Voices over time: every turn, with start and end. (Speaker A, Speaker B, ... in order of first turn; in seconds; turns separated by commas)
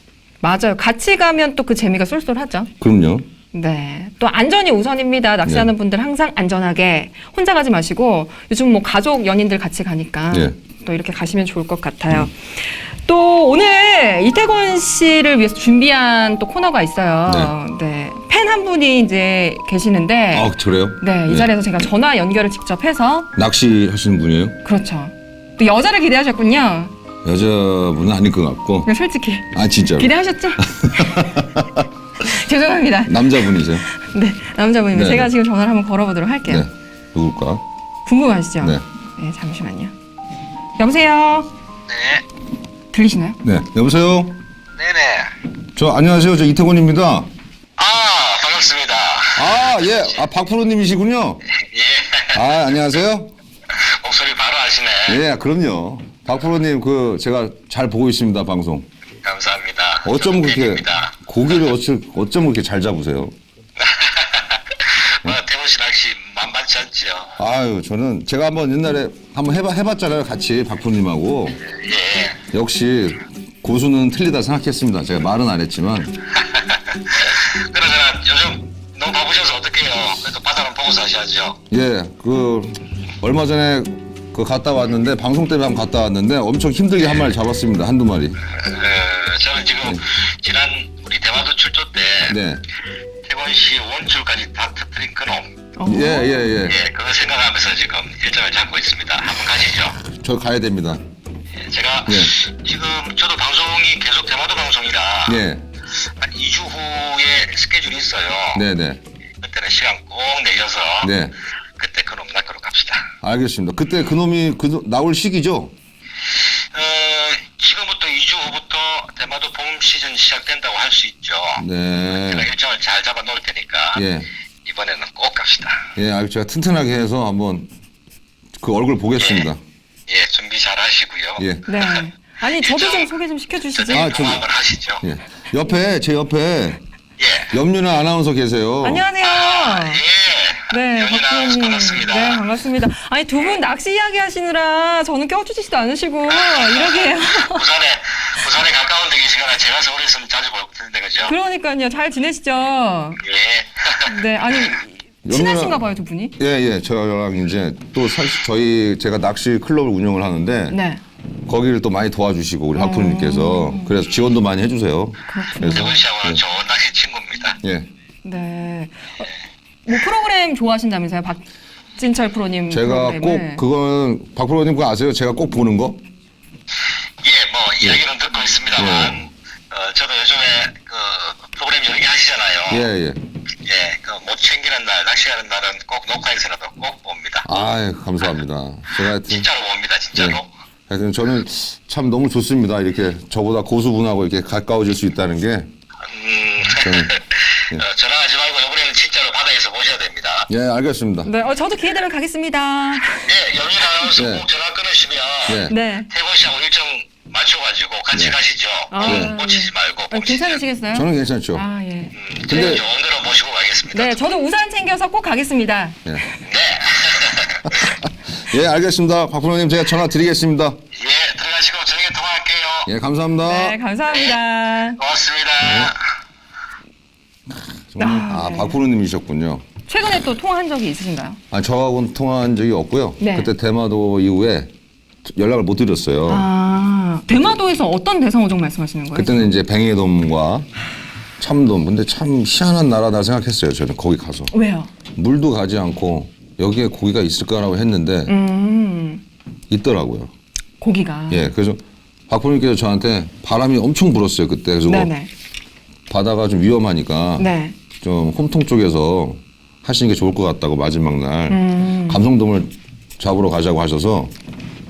Speaker A: 0.4-2.7, Speaker B: 2.8-3.2, Speaker A: 3.5-23.3, Speaker B: 5.4-5.7, Speaker B: 17.3-17.5, Speaker B: 20.3-21.5, Speaker B: 23.4-24.6, Speaker A: 24.6-26.9, Speaker B: 27.2-28.9, Speaker A: 28.9-31.3, Speaker B: 29.5-31.8, Speaker A: 32.2-36.7, Speaker B: 33.0-33.9, Speaker B: 34.9-35.3, Speaker B: 36.5-37.6, Speaker A: 38.0-39.9, Speaker A: 40.8-41.5, Speaker C: 41.9-42.2, Speaker A: 42.9-43.4, Speaker B: 43.4-44.4, Speaker C: 44.8-45.4, Speaker B: 45.8-47.3, Speaker C: 47.8-49.9, Speaker B: 49.4-51.4, Speaker C: 51.5-52.5, Speaker B: 52.3-53.3, Speaker C: 53.7-55.2, Speaker B: 55.0-58.9, Speaker C: 59.2-61.1, Speaker B: 60.0-63.3, Speaker C: 63.8-67.3, Speaker B: 67.4-71.6, Speaker C: 71.7-72.4, Speaker B: 72.5-76.2, Speaker C: 76.4-81.6, Speaker B: 81.7-88.4, Speaker C: 88.5-92.4, Speaker B: 92.2-92.6, Speaker C: 93.2-95.5, Speaker A: 95.8-96.5, Speaker B: 95.9-96.8, Speaker C: 96.6-100.0, Speaker B: 99.9-101.0, Speaker C: 101.6-105.4, Speaker B: 102.1-102.3, Speaker B: 105.2-105.6, Speaker C: 106.0-108.6, Speaker B: 108.5-109.0, Speaker C: 109.4-111.1, Speaker B: 111.0-111.3, Speaker C: 111.8-113.1, Speaker B: 113.2-115.7, Speaker C: 116.4-124.0, Speaker B: 121.6-122.5, Speaker B: 123.9-124.3, Speaker C: 124.6-125.9, Speaker B: 126.0-127.7, Speaker B: 128.6-129.6, Speaker C: 129.2-129.5, Speaker C: 130.1-131.4, Speaker B: 131.4-132.1, Speaker A: 131.7-134.4, Speaker C: 132.4-133.1, Speaker C: 133.8-135.0, Speaker B: 133.9-134.5, Speaker B: 135.0-136.8, Speaker C: 137.2-137.5, Speaker B: 137.5-139.1, Speaker A: 138.8-140.0, Speaker C: 139.2-142.4, Speaker A: 140.7-147.7, Speaker C: 146.3-151.3, Speaker A: 151.2-153.2, Speaker C: 153.2-154.1, Speaker A: 154.1-156.4, Speaker B: 155.2-155.8, Speaker B: 156.4-160.8, Speaker A: 160.7-161.0, Speaker B: 161.4-166.4, Speaker A: 162.7-164.0, Speaker A: 165.3-166.0, Speaker C: 165.7-167.6, Speaker B: 167.6-167.9, Speaker A: 168.2-169.3, Speaker A: 169.9-171.4, Speaker A: 172.0-173.6, Speaker B: 172.7-176.0, Speaker C: 177.2-182.8, Speaker B: 178.8-179.2, Speaker B: 182.7-183.2, Speaker C: 183.6-187.4, Speaker B: 187.4-189.5, Speaker C: 189.3-190.5, Speaker B: 190.2-195.7, Speaker C: 196.1-200.5, Speaker B: 196.7-197.1, Speaker B: 200.5-201.3, Speaker A: 201.2-203.3, Speaker C: 203.2-210.6, Speaker B: 204.1-204.5, Speaker B: 205.5-205.8, Speaker A: 205.7-206.1, Speaker B: 208.1-208.4, Speaker A: 208.9-212.8, Speaker B: 209.0-209.4, Speaker B: 210.9-211.6, Speaker C: 212.2-214.2, Speaker B: 212.4-212.8, Speaker A: 213.9-216.2, Speaker C: 216.4-217.9, Speaker B: 217.8-220.8, Speaker C: 220.9-222.9, Speaker B: 222.8-223.8, Speaker A: 223.4-225.0, Speaker C: 225.0-226.0, Speaker B: 225.6-225.9, Speaker B: 227.5-229.6, Speaker A: 228.0-228.8, Speaker A: 229.9-231.4, Speaker B: 231.5-234.7, Speaker A: 233.2-233.5, Speaker B: 235.2-236.5, Speaker A: 236.3-239.4, Speaker B: 239.1-240.7, Speaker B: 241.4-244.5, Speaker A: 244.5-244.9, Speaker B: 245.1-248.3, Speaker A: 248.3-249.2, Speaker B: 249.7-250.3, Speaker A: 250.8-251.5, Speaker B: 251.3-255.1, Speaker A: 254.9-255.3, Speaker B: 256.1-264.3, Speaker A: 257.4-257.8, Speaker A: 261.5-262.2